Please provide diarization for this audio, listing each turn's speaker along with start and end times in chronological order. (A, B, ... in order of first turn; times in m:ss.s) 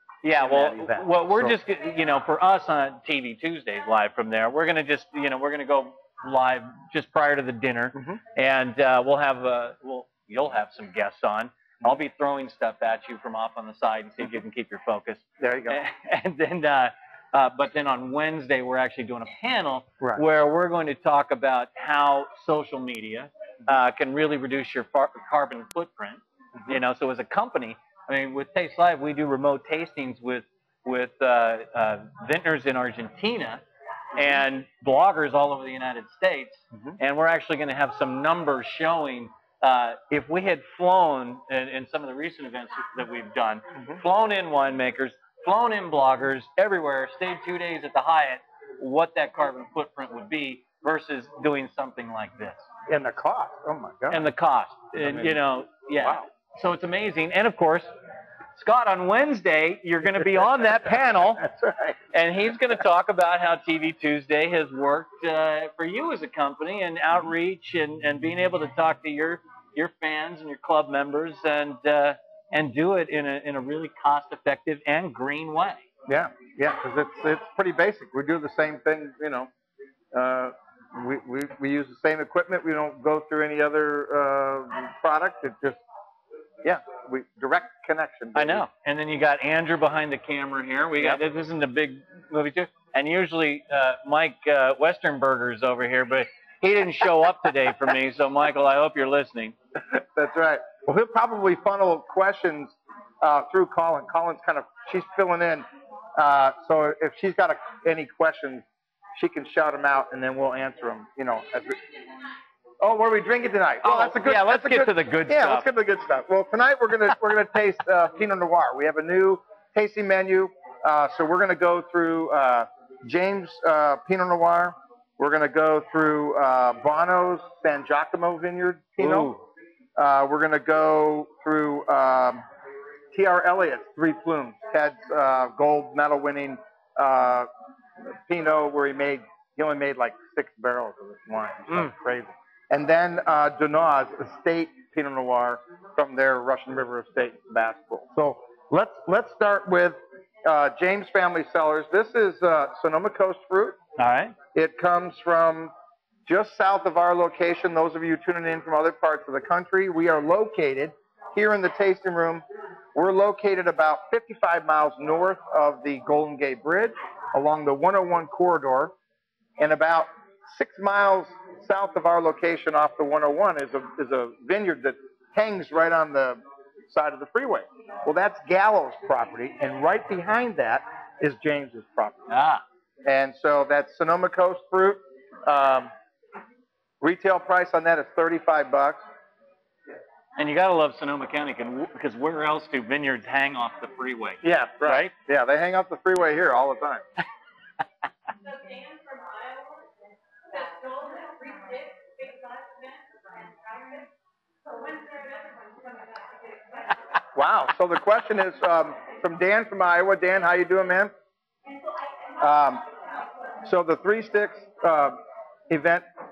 0:00.2-0:33.6 A
0:00.3-0:01.6 B
0:15.4-0:15.8 B
0:34.1-0:52.7 A
0:43.7-0:44.0 B
0:52.9-0:54.3 B
0:54.1-0:57.9 A
0:55.0-0:55.4 B
0:56.0-0:56.2 B
0:58.5-1:01.5 A
1:01.4-1:01.9 B
1:02.1-1:15.8 A
1:16.1-1:19.5 B
1:20.1-1:25.8 B
1:26.6-1:28.6 B
1:28.3-1:39.5 A
1:39.9-1:45.6 B
1:46.2-1:48.6 B
1:49.1-1:51.8 B
1:52.8-2:09.3 B
1:53.8-1:55.7 A
2:09.0-2:09.4 A
2:10.0-2:12.4 B
2:13.1-2:17.5 B
2:18.1-2:33.8 B
2:34.0-2:34.3 A
2:34.5-2:35.7 B
2:36.2-2:42.4 B
2:42.9-2:48.9 B
2:49.6-3:02.3 B
3:02.3-3:02.6 A
3:03.0-3:05.9 B
3:07.0-3:09.0 B
3:10.4-3:15.1 A
3:14.4-3:17.0 B
3:18.6-3:19.6 C
3:20.6-3:24.0 C
3:24.7-3:26.4 C
3:27.3-3:31.1 B
3:32.4-3:32.8 B
3:33.6-3:35.2 B
3:35.7-3:36.0 B